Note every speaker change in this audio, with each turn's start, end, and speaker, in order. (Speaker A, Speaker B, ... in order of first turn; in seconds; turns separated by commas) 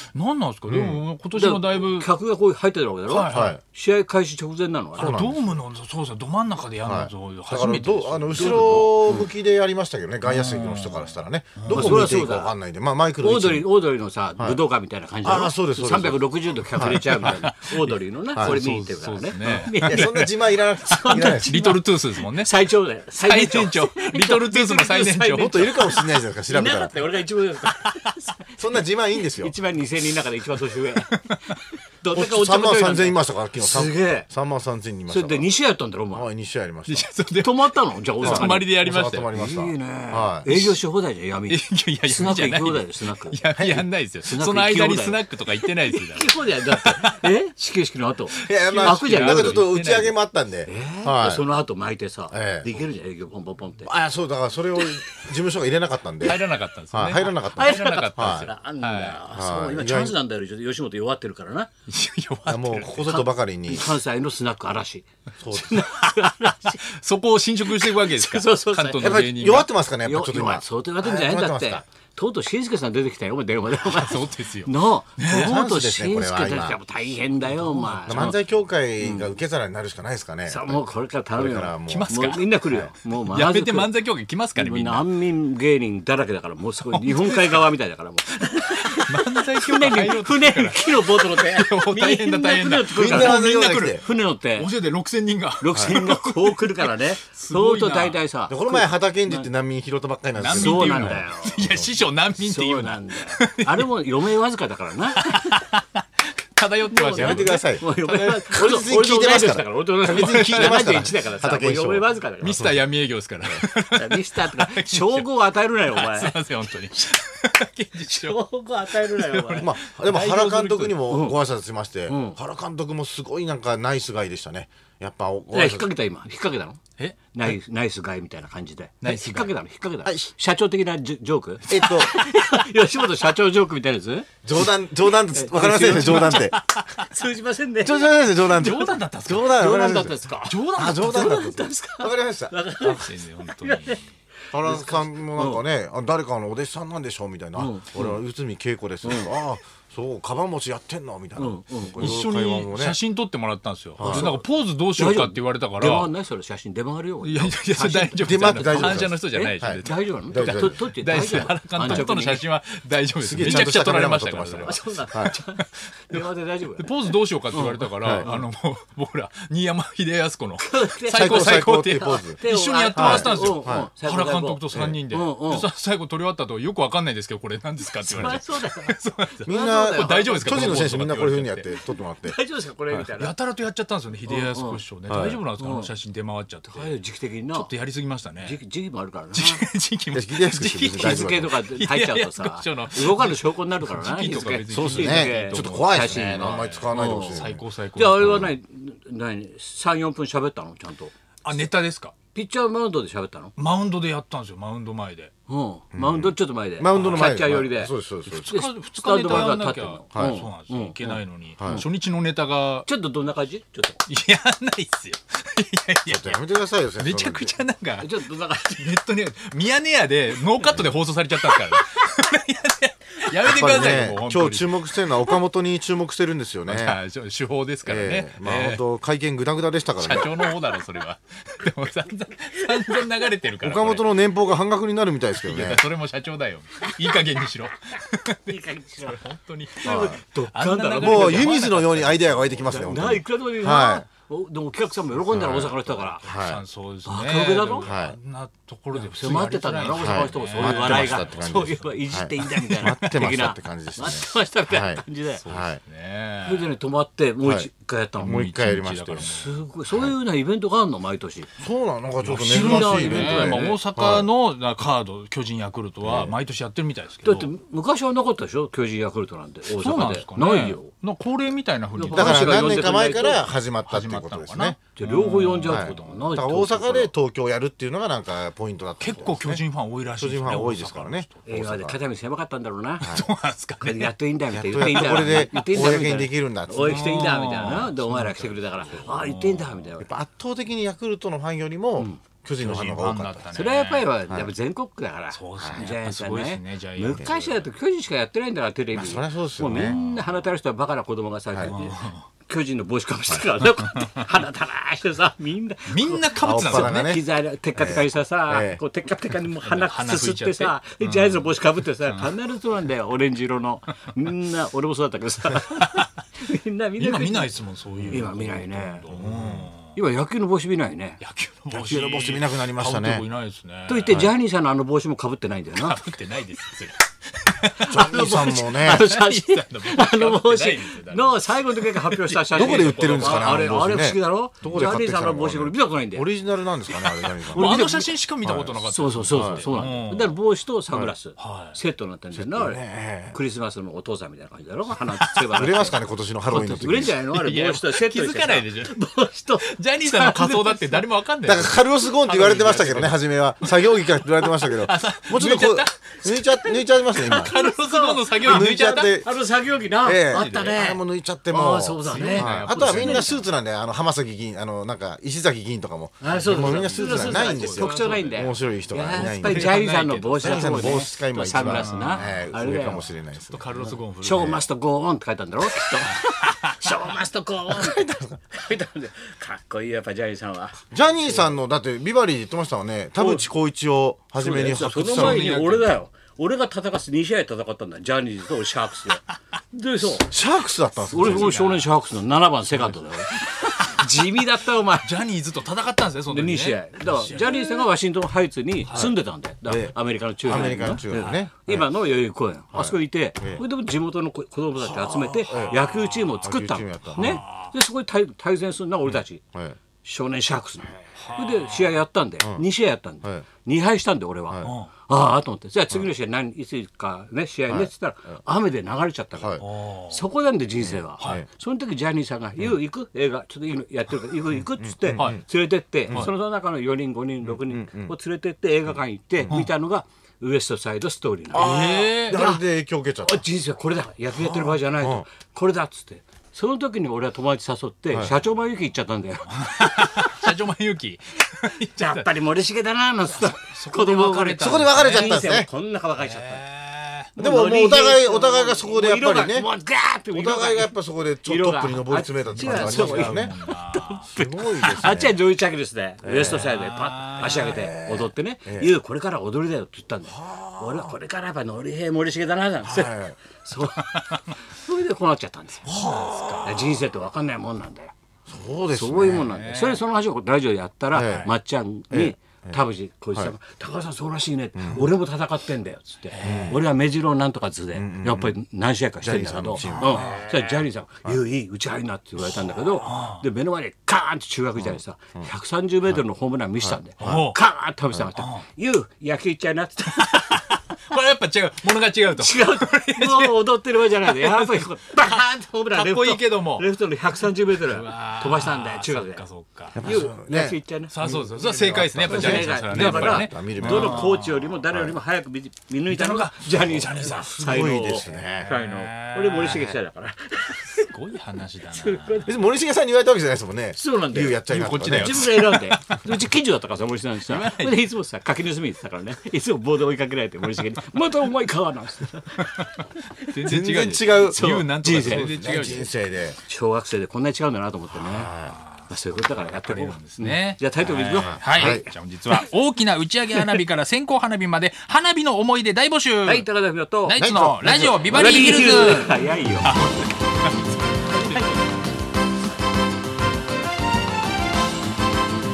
Speaker A: 0.1-2.1, Speaker B: 0.7-1.0, Speaker C: 1.3-5.2, Speaker A: 3.1-3.5, Speaker B: 3.3-3.6, Speaker B: 5.0-5.6, Speaker A: 5.0-8.9, Speaker B: 6.8-13.7, Speaker C: 8.3-9.3, Speaker A: 10.2-12.2, Speaker C: 11.7-12.5, Speaker C: 13.2-20.2, Speaker B: 15.2-17.4, Speaker A: 16.8-20.3, Speaker B: 19.8-21.5, Speaker C: 20.8-34.3, Speaker A: 21.1-22.6, Speaker A: 23.2-26.0, Speaker B: 25.3-26.9, Speaker B: 28.6-29.5, Speaker A: 31.2-31.6, Speaker B: 32.1-35.5, Speaker C: 35.1-36.2, Speaker B: 36.1-37.1, Speaker A: 36.9-39.3, Speaker C: 37.4-38.7, Speaker B: 38.2-40.5, Speaker C: 39.3-49.7, Speaker A: 40.5-40.8, Speaker A: 41.5-47.3, Speaker A: 48.3-50.1, Speaker B: 48.4-51.4, Speaker C: 50.6-53.9, Speaker B: 52.3-52.7, Speaker B: 53.8-56.4, Speaker A: 56.2-59.2, Speaker B: 56.9-58.5, Speaker C: 57.5-61.7, Speaker B: 59.3-60.1, Speaker A: 61.9-63.0, Speaker B: 62.5-63.9, Speaker C: 63.0-66.8, Speaker B: 65.4-65.8, Speaker A: 66.9-69.7, Speaker C: 67.7-69.2, Speaker B: 69.0-71.8, Speaker C: 70.0-78.4, Speaker A: 73.8-75.6, Speaker B: 75.2-76.8, Speaker A: 77.5-78.3, Speaker B: 78.1-80.8, Speaker C: 79.0-79.3, Speaker C: 80.5-83.9, Speaker B: 81.3-82.9, Speaker A: 81.9-82.5, Speaker A: 83.2-85.1, Speaker C: 84.5-94.7, Speaker A: 86.9-87.7, Speaker A: 88.7-98.2, Speaker B: 92.9-94.0, Speaker C: 95.6-99.5, Speaker B: 98.5-101.9, Speaker A: 100.4-103.9, Speaker C: 100.5-101.7, Speaker C: 102.3-105.6, Speaker A: 105.1-108.4, Speaker C: 106.9-112.6, Speaker B: 107.2-107.8, Speaker B: 108.5-112.8, Speaker A: 110.1-111.0, Speaker A: 112.4-115.3, Speaker C: 113.9-116.3, Speaker A: 115.9-118.4, Speaker C: 118.0-119.7, Speaker A: 118.9-121.0, Speaker B: 119.6-125.9, Speaker C: 121.1-121.4, Speaker C: 122.1-122.4, Speaker C: 125.5-126.8, Speaker A: 127.0-127.5, Speaker C: 127.3-134.3, Speaker A: 129.0-129.5, Speaker B: 130.0-130.3, Speaker B: 131.7-132.1, Speaker B: 134.4-136.5, Speaker C: 135.1-138.1, Speaker A: 135.8-137.1, Speaker B: 137.8-140.2, Speaker A: 138.4-139.6, Speaker C: 139.4-144.0, Speaker A: 140.5-141.4, Speaker B: 140.8-142.5, Speaker A: 142.8-144.1, Speaker C: 144.5-145.6, Speaker B: 144.5-153.0, Speaker C: 147.5-148.2, Speaker C: 149.0-149.3, Speaker C: 151.4-152.2, Speaker A: 152.0-156.1, Speaker B: 154.0-154.4, Speaker C: 154.0-154.4, Speaker C: 154.9-162.4, Speaker A: 157.2-166.2, Speaker B: 158.2-162.1, Speaker B: 163.2-165.3, Speaker C: 164.6-168.4, Speaker A: 166.8-181.7, Speaker B: 168.0-168.3, Speaker C: 170.6-175.7, Speaker B: 171.1-172.4, Speaker B: 172.9-173.9, Speaker B: 174.7-175.0, Speaker C: 178.1-181.1, Speaker B: 179.4-182.4, Speaker C: 182.2-183.3, Speaker A: 183.1-186.9, Speaker C: 184.3-185.9, Speaker B: 185.1-185.4, Speaker C: 186.6-187.7, Speaker A: 187.5-188.6, Speaker C: 188.4-189.6, Speaker A: 189.3-198.5, Speaker B: 190.1-191.6, Speaker C: 191.0-201.1, Speaker B: 194.7-197.6, Speaker A: 201.4-202.1, Speaker C: 202.3-203.5, Speaker A: 203.6-205.3, Speaker C: 205.5-207.9, Speaker B: 205.9-208.5, Speaker A: 206.9-207.4, Speaker A: 208.3-212.9, Speaker C: 208.4-211.9, Speaker B: 210.1-210.4, Speaker B: 211.6-211.8, Speaker C: 212.8-214.0, Speaker A: 214.1-216.3, Speaker B: 216.1-217.5, Speaker A: 217.0-225.4, Speaker C: 218.0-218.9, Speaker B: 223.4-227.0, Speaker A: 226.7-228.8, Speaker B: 227.8-230.3, Speaker A: 229.9-234.2, Speaker B: 233.6-235.8, Speaker A: 235.4-242.9, Speaker C: 238.5-239.2, Speaker C: 239.8-241.5, Speaker B: 239.8-240.2, Speaker B: 241.0-244.1, Speaker C: 242.6-246.2, Speaker B: 245.3-246.6, Speaker A: 245.5-251.6, Speaker C: 247.1-247.9, Speaker B: 247.8-248.2, Speaker C: 248.9-255.4, Speaker B: 249.8-255.8, Speaker A: 252.4-253.5, Speaker A: 255.4-256.7, Speaker C: 256.4-258.5, Speaker B: 257.4-257.7, Speaker B: 258.2-259.3, Speaker A: 258.2-259.6, Speaker C: 259.2-261.5, Speaker B: 261.6-264.3, Speaker A: 262.2-267.5, Speaker C: 262.4-263.8, Speaker B: 266.0-266.3, Speaker C: 267.2-270.9, Speaker A: 269.8-272.9, Speaker C: 271.9-273.5, Speaker B: 272.1-274.8, Speaker A: 273.8-276.3, Speaker C: 274.9-277.1, Speaker B: 275.7-279.6, Speaker A: 279.0-281.4, Speaker B: 280.1-282.0, Speaker C: 281.4-283.1, Speaker B: 283.0-283.3, Speaker A: 283.0-284.1, Speaker C: 283.8-290.1, Speaker B: 284.5-287.1, Speaker A: 284.8-285.6, Speaker A: 286.8-289.9, Speaker B: 290.0-293.5, Speaker A: 292.6-294.1, Speaker C: 293.5-317.5, Speaker A: 295.3-297.6, Speaker B: 295.6-295.9, Speaker B: 298.9-299.9, Speaker A: 299.8-300.1, Speaker A: 301.6-302.2, Speaker A: 305.9-307.1, Speaker B: 306.4-308.8, Speaker A: 309.6-311.5, Speaker A: 312.0-312.3, Speaker A: 317.0-319.9, Speaker B: 318.0-318.3, Speaker C: 318.1-319.1, Speaker B: 319.1-319.7, Speaker C: 319.9-321.2, Speaker A: 321.2-324.3, Speaker B: 321.7-323.2, Speaker C: 323.9-326.0, Speaker A: 325.7-333.8, Speaker B: 327.9-329.0, Speaker C: 327.9-336.3, Speaker B: 332.5-337.8, Speaker A: 336.9-340.4, Speaker C: 337.5-338.1, Speaker B: 338.4-338.8, Speaker C: 338.9-346.0, Speaker B: 339.3-339.7, Speaker A: 341.4-341.8, Speaker B: 342.3-343.4, Speaker A: 345.1-345.5, Speaker B: 345.5-347.1, Speaker A: 346.5-349.0, Speaker C: 346.5-351.1, Speaker A: 349.6-351.8, Speaker B: 351.4-357.5, Speaker C: 352.2-353.1, Speaker A: 353.6-356.4, Speaker A: 357.1-359.2, Speaker C: 357.2-363.4, Speaker B: 358.4-359.3, Speaker B: 360.0-369.8, Speaker A: 360.3-360.8, Speaker A: 362.0-363.4, Speaker C: 366.2-373.0, Speaker A: 366.3-368.5, Speaker A: 369.1-374.6, Speaker B: 370.4-373.7, Speaker C: 373.8-381.5, Speaker A: 376.1-377.0, Speaker B: 377.7-378.4, Speaker B: 380.9-385.4, Speaker C: 383.2-383.4, Speaker C: 384.4-390.3, Speaker A: 384.8-386.0, Speaker B: 390.3-391.5, Speaker C: 391.1-395.1, Speaker A: 391.1-391.9, Speaker A: 392.7-394.1, Speaker A: 395.0-397.9, Speaker C: 396.3-409.4, Speaker B: 399.6-401.9, Speaker B: 402.7-403.6, Speaker A: 405.1-405.8, Speaker B: 405.5-407.4, Speaker A: 407.1-407.7, Speaker C: 410.0-432.6, Speaker A: 411.2-411.9, Speaker A: 414.6-414.9, Speaker A: 419.6-420.2, Speaker B: 420.8-421.5, Speaker B: 424.6-425.4, Speaker A: 425.1-425.4, Speaker B: 427.4-428.1, Speaker B: 431.5-433.4, Speaker A: 431.5-432.4, Speaker C: 433.2-440.5, Speaker B: 434.3-435.2, Speaker A: 439.5-442.3, Speaker C: 442.0-446.6, Speaker A: 443.2-445.6, Speaker B: 444.6-445.7, Speaker A: 446.2-447.3, Speaker C: 447.4-466.0, Speaker B: 447.4-449.7, Speaker B: 450.3-453.5, Speaker A: 452.4-454.2, Speaker B: 454.3-455.4, Speaker B: 456.2-456.7, Speaker A: 456.6-457.8, Speaker B: 457.6-458.9, Speaker B: 460.3-461.1, Speaker B: 462.9-463.4, Speaker A: 464.1-464.4, Speaker B: 465.9-466.6, Speaker A: 465.9-467.0, Speaker C: 466.6-468.1, Speaker B: 468.5-469.6, Speaker C: 468.9-490.6, Speaker A: 469.4-470.0, Speaker B: 471.1-471.5, Speaker B: 472.1-472.8, Speaker B: 474.8-475.0, Speaker A: 476.3-476.8, Speaker B: 476.4-476.8, Speaker B: 477.9-478.5, Speaker B: 479.2-480.4, Speaker A: 479.8-480.5, Speaker A: 483.0-483.4, Speaker B: 484.8-485.5, Speaker B: 486.8-487.5, Speaker A: 487.2-487.6, Speaker A: 488.3-488.6, Speaker A: 490.1-493.5, Speaker C: 492.4-499.4, Speaker A: 494.1-494.9, Speaker A: 495.9-496.9, Speaker A: 497.5-500.0, Speaker C: 499.9-501.1, Speaker B: 499.9-505.2, Speaker A: 501.1-504.7, Speaker C: 502.2-511.1, Speaker A: 506.1-510.0, Speaker B: 507.4-508.7, Speaker A: 510.8-512.5, Speaker C: 511.9-512.6, Speaker B: 512.4-515.4, Speaker C: 513.9-522.8, Speaker A: 514.7-516.4, Speaker A: 517.5-518.0, Speaker A: 522.6-522.9, Speaker A: 523.4-526.1, Speaker B: 523.6-524.6, Speaker C: 524.4-525.5, Speaker B: 525.2-526.6, Speaker C: 526.6-528.5, Speaker B: 528.3-528.7, Speaker A: 528.4-536.6, Speaker C: 529.1-532.6, Speaker B: 531.3-532.0, Speaker C: 533.5-533.8, Speaker C: 536.4-537.4, Speaker A: 537.2-541.6, Speaker B: 537.4-538.8, Speaker C: 538.3-540.0, Speaker C: 541.3-541.8